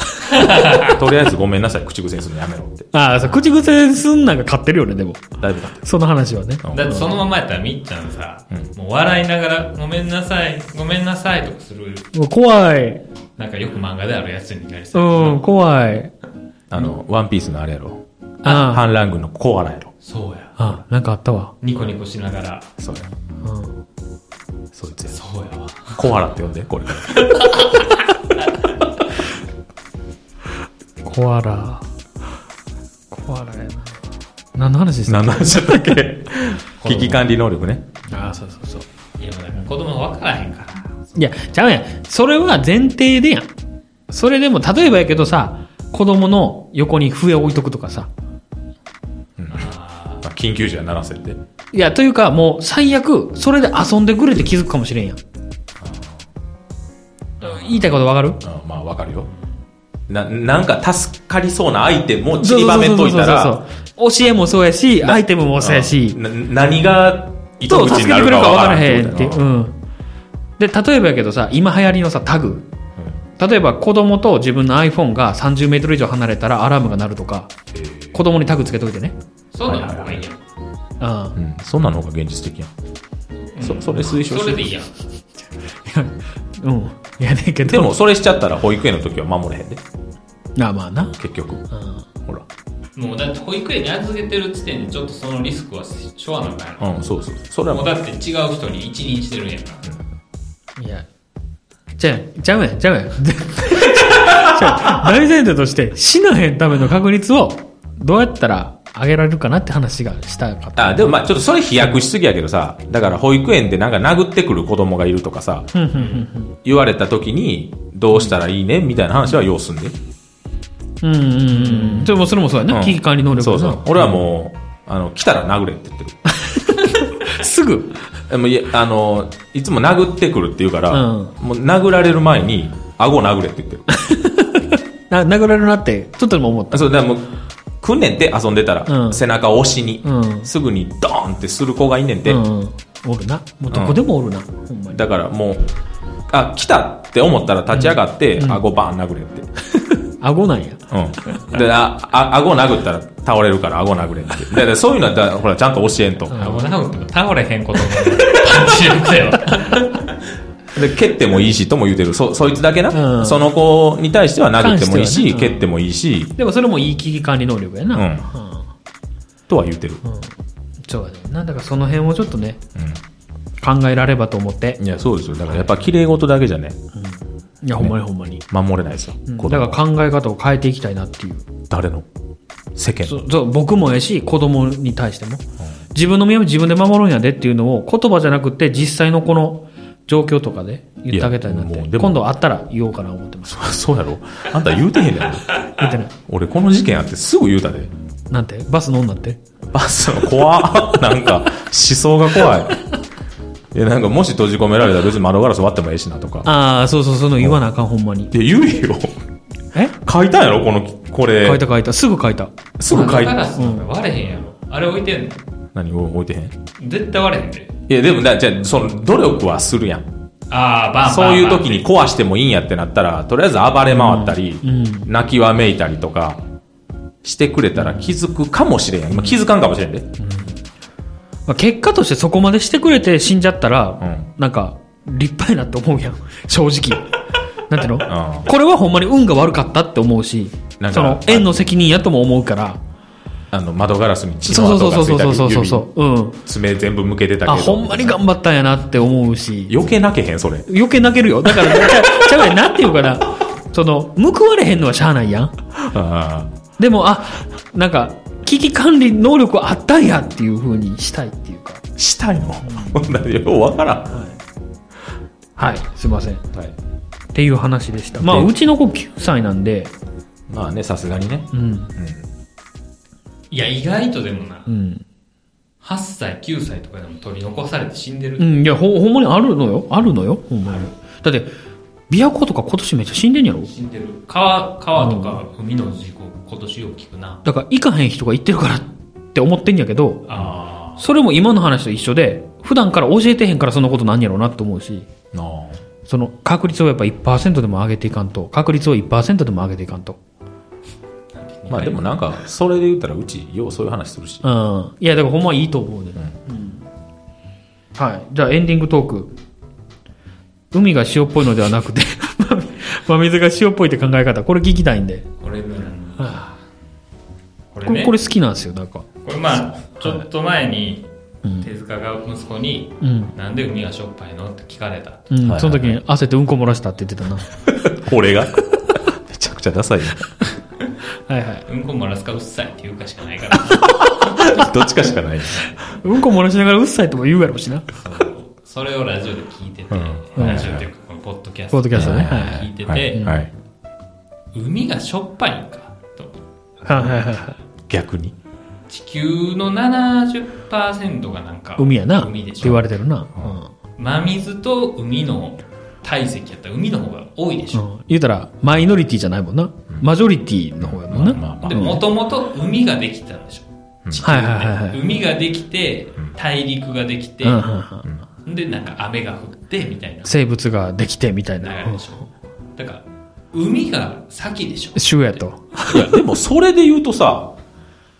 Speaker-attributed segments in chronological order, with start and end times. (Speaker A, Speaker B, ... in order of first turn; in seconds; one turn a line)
Speaker A: 0.2-1.0
Speaker B: 0.8-2.9
Speaker C: 2.9-7.1
Speaker B: 5.4-5.8
Speaker B: 6.6-6.9
Speaker A: 6.7-12.1
Speaker C: 12.1-13.0
Speaker A: 13.4-15.4
Speaker C: 14.9-16.1
Speaker B: 16.7-19.9
Speaker C: 18.4-18.8
Speaker A: 20.0-20.6
Speaker C: 20.6-21.5
Speaker A: 21.6-22.7
Speaker B: 22.8-23.1
Speaker C: 23.4-23.8
Speaker B: 24.7-25.1
Speaker A: 25.1-26.0
Speaker B: 25.9-27.5
Speaker A: 27.2-27.8
Speaker C: 31.0-31.8
Speaker C: 33.1-34.0
Speaker C: 34.5-36.5
Speaker B: 35.1-37.9
Speaker A: 36.8-37.1
Speaker C: 38.1-38.8
Speaker A: 39.2-41.4
Speaker C: 41.1-43.5
Speaker C: 44.1-48.1
Speaker B: 49.4-49.7
Speaker A: 49.5-50.2
Speaker B: 50.2-51.4
Speaker C: 51.7-55.2
Speaker B: 55.8-56.2
Speaker C: 57.4-58.4
Speaker B: 58.4-59.3
Speaker A: 59.3-59.5
Speaker B: 60.1-63.6
Speaker C: 62.4-66.2
Speaker B: 65.0-69.5
Speaker C: 67.7-69.7
Speaker C: 70.6-72.7
Speaker C: 73.4-77.5
Speaker B: 77.7-78.2
Speaker C: 78.1-79.1
Speaker A: 79.5-80.4
Speaker B: 79.7-80.2
Speaker C: 81.0-81.4
Speaker B: 81.3-82.7
Speaker A: 83.5-84.9
Speaker B: 83.6-84.7
Speaker C: 85.6-88.0
Speaker B: 87.6-89.8
Speaker C: 90.5-91.2
Speaker B: 91.2-91.6
Speaker C: 91.7-92.0
Speaker A: 93.0-97.0
Speaker B: 96.8-97.9
Speaker A: 97.7-99.9
Speaker C: 100.8-101.0
Speaker C: 102.0-111.2
Speaker B: 104.0-104.8
Speaker B: 110.8-115.7
Speaker C: 115.7-116.5
Speaker A: 115.9-116.3
Speaker B: 116.6-120.0
Speaker C: 121.0-124.2
Speaker A: 121.7-122.1
Speaker B: 122.7-126.2
Speaker C: 126.3-128.0
Speaker B: 128.3-133.9
Speaker C: 130.9-131.3
Speaker C: 133.9-136.9
Speaker B: 136.7-137.3
Speaker B: 137.8-142.4
Speaker C: 138.9-139.2
Speaker C: 140.0-140.5
Speaker C: 142.2-145.0
Speaker B: 143.7-144.0
Speaker B: 144.9-145.7
Speaker B: 146.3-149.5
Speaker C: 147.7-148.6
Speaker C: 149.7-151.4
Speaker B: 150.9-156.7
Speaker C: 156.3-156.6
Speaker A: 156.3-160.2
Speaker B: 160.7-166.3
Speaker C: 162.9-163.5
Speaker C: 164.6-165.7
Speaker C: 166.4-168.7
Speaker B: 167.9-168.3
Speaker B: 169.5-170.0
Speaker C: 170.0-170.3
Speaker C: 170.8-172.6
Speaker B: 172.8-173.0
Speaker C: 173.6-174.8
Speaker B: 174.8-176.8
Speaker C: 176.9-178.4
Speaker B: 178.5-179.8
Speaker C: 179.3-181.5
Speaker B: 181.7-182.1
Speaker B: 182.7-183.2
Speaker C: 183.1-193.7
Speaker B: 191.1-192.2
Speaker B: 193.4-195.6
Speaker C: 195.8-196.1
Speaker B: 196.3-197.9
Speaker C: 198.3-199.4
Speaker B: 199.7-202.8
Speaker B: 203.7-206.5
Speaker C: 206.4-208.3
Speaker B: 208.3-209.2
Speaker B: 210.0-211.6
Speaker C: 211.4-213.8
Speaker B: 212.8-213.4
Speaker A: 212.9-215.4
Speaker B: 215.7-216.6
Speaker A: 216.8-217.7
Speaker B: 217.9-220.1
Speaker A: 220.5-221.8
Speaker B: 221.0-226.4
Speaker C: 223.9-225.1
Speaker B: 227.2-230.1
Speaker C: 227.8-228.1
Speaker C: 230.2-230.5
Speaker C: 231.5-237.1
Speaker B: 234.0-234.3
Speaker C: 237.7-242.8
Speaker B: 238.0-238.5
Speaker B: 240.8-241.6
Speaker B: 243.5-245.9
Speaker C: 244.5-246.4
Speaker B: 246.4-248.2
Speaker C: 247.4-249.8
Speaker B: 249.7-250.7
Speaker C: 250.7-255.5
Speaker B: 251.4-252.5
Speaker B: 255.8-256.6
Speaker C: 256.8-261.8
Speaker B: 262.0-264.2
Speaker C: 262.6-263.1
Speaker C: 264.1-264.4
Speaker C: 265.6-266.4
Speaker C: 267.3-269.9
Speaker B: 268.1-268.5
Speaker B: 270.5-272.3
Speaker C: 271.5-271.9
Speaker A: 273.5-274.7
Speaker C: 274.7-275.0
Speaker A: 275.8-278.5
Speaker C: 278.4-281.5
Speaker C: 282.1-283.7
Speaker A: 283.7-287.4
Speaker C: 284.9-285.4
Speaker C: 287.4-290.2
Speaker A: 290.2-291.1
Speaker C: 291.0-295.1
Speaker B: 295.3-295.8
Speaker C: 296.1-300.2
Speaker A: 301.3-302.0
Speaker B: 301.7-304.4
Speaker C: 304.4-306.8
Speaker C: 307.9-309.3
Speaker C: 310.7-315.3
Speaker A: 315.4-316.6
Speaker C: 316.2-316.4
Speaker A: 317.7-318.1
Speaker C: 317.9-319.1
Speaker A: 319.2-321.1
Speaker A: 321.6-325.9
Speaker C: 323.0-323.3
Speaker C: 325.3-327.6
Speaker B: 325.4-325.9
Speaker B: 327.7-328.6
Speaker B: 329.1-330.3
Speaker C: 331.3-331.6
Speaker A: 331.6-334.6
Speaker B: 334.2-335.8
Speaker C: 336.0-337.9
Speaker A: 337.9-343.3
Speaker B: 339.9-340.9
Speaker C: 340.4-340.7
Speaker C: 341.7-343.4
Speaker B: 341.9-343.5
Speaker A: 344.5-346.4
Speaker C: 346.9-347.6
Speaker B: 347.9-348.3
Speaker A: 348.9-352.8
Speaker C: 351.8-353.7
Speaker A: 354.0-357.8
Speaker C: 357.7-362.0
Speaker B: 360.8-361.9
Speaker A: 361.6-367.6
Speaker C: 364.2-365.0
Speaker C: 367.4-368.1
Speaker A: 368.4-370.3
Speaker C: 370.2-372.1
Speaker A: 371.6-375.4
Speaker C: 374.9-376.1
Speaker B: 375.9-377.5